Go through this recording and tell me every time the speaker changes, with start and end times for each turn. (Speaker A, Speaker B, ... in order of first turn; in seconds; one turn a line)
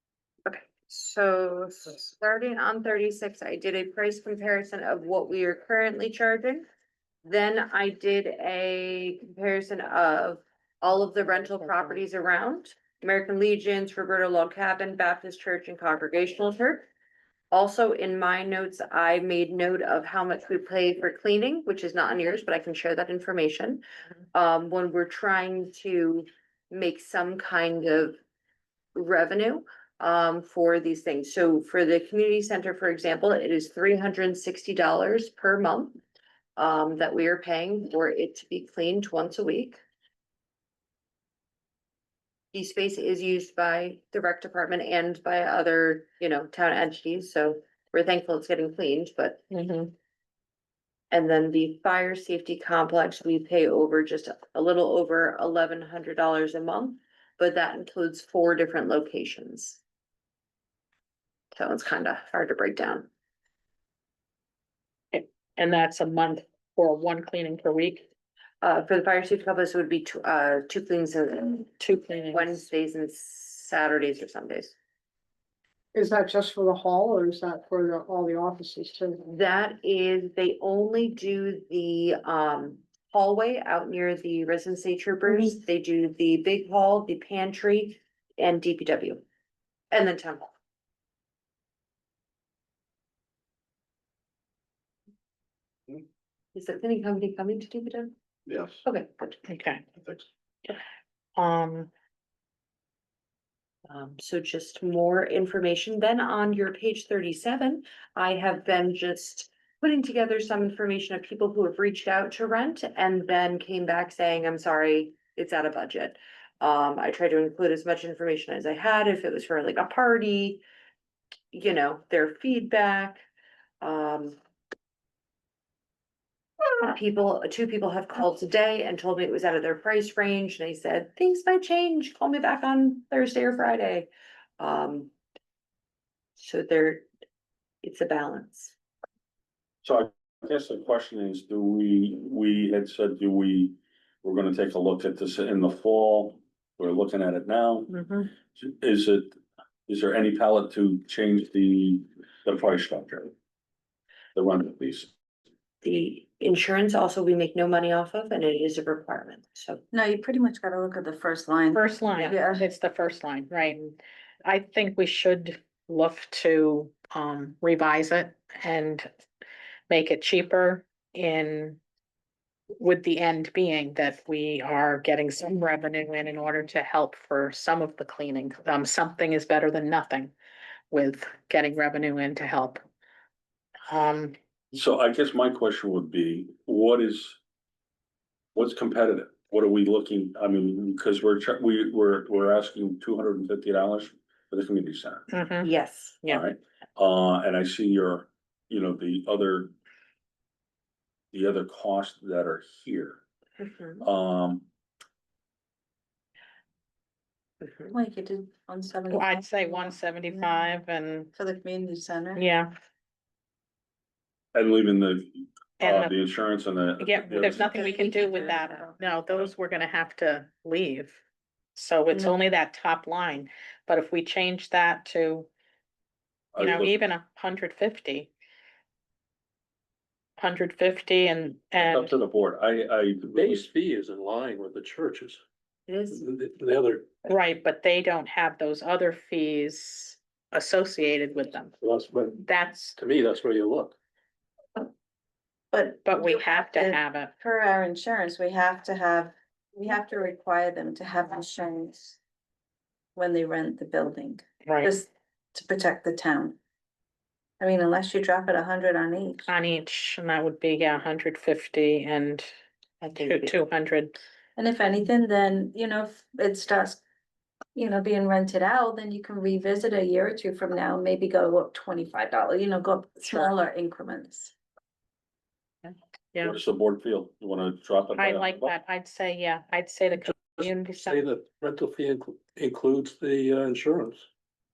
Speaker A: 0.5-6.7
Speaker A: 7.2-16.9
Speaker B: 11.4-12.0
Speaker A: 17.5-23.8
Speaker A: 24.3-28.2
Speaker A: 28.9-36.0
Speaker A: 36.6-39.8
Speaker A: 42.5-49.4
Speaker B: 49.5-49.9
Speaker A: 51.1-59.8
Speaker A: 61.5-63.1
Speaker B: 65.1-68.1
Speaker A: 68.6-71.7
Speaker B: 71.8-72.6
Speaker A: 72.3-74.7
Speaker C: 76.0-79.3
Speaker A: 79.3-89.2
Speaker A: 89.9-90.5
Speaker A: 96.5-98.2
Speaker A: 98.8-99.3
Speaker B: 99.5-99.8
Speaker B: 101.4-101.9
Speaker A: 103.9-120.6
Speaker A: 121.5-123.2
Speaker A: 123.8-124.4
Speaker A: 126.8-135.1
Speaker A: 136.4-137.1
Speaker A: 137.8-138.7
Speaker D: 139.8-147.9
Speaker B: 147.9-148.3
Speaker D: 148.5-153.3
Speaker D: 154.3-155.1
Speaker A: 155.8-159.8
Speaker E: 159.9-162.7
Speaker B: 161.7-169.1
Speaker B: 169.9-171.8
Speaker B: 172.8-180.3
Speaker B: 180.9-182.8
Speaker B: 183.9-184.3
Speaker D: 184.7-187.4
Speaker D: 188.6-195.2
Speaker B: 195.3-195.7
Speaker A: 195.6-196.2
Speaker D: 196.3-199.7
Speaker D: 201.3-203.2
Speaker A: 203.6-204.0
Speaker D: 204.0-204.7
Speaker A: 207.6-207.9
Speaker E: 207.9-210.6
Speaker B: 209.1-211.3
Speaker E: 211.3-212.4
Speaker B: 212.4-212.7
Speaker D: 214.5-217.9
Speaker B: 215.8-216.2
Speaker B: 217.0-221.2
Speaker A: 217.5-219.0
Speaker B: 221.8-225.5
Speaker D: 226.6-227.0
Speaker B: 226.6-228.3
Speaker B: 230.4-232.2
Speaker D: 231.8-233.7
Speaker F: 233.3-235.4
Speaker A: 235.9-236.2
Speaker F: 236.1-237.1
Speaker B: 237.2-241.7
Speaker F: 241.8-244.0
Speaker B: 242.4-243.0
Speaker E: 245.7-252.2
Speaker B: 246.0-247.3
Speaker E: 253.2-256.6
Speaker B: 254.6-254.9
Speaker E: 257.6-259.5
Speaker B: 259.5-262.5
Speaker A: 263.0-263.6
Speaker B: 263.2-264.2
Speaker E: 264.6-267.0
Speaker E: 267.8-274.5
Speaker D: 276.4-278.7
Speaker B: 278.2-281.3
Speaker F: 280.3-284.2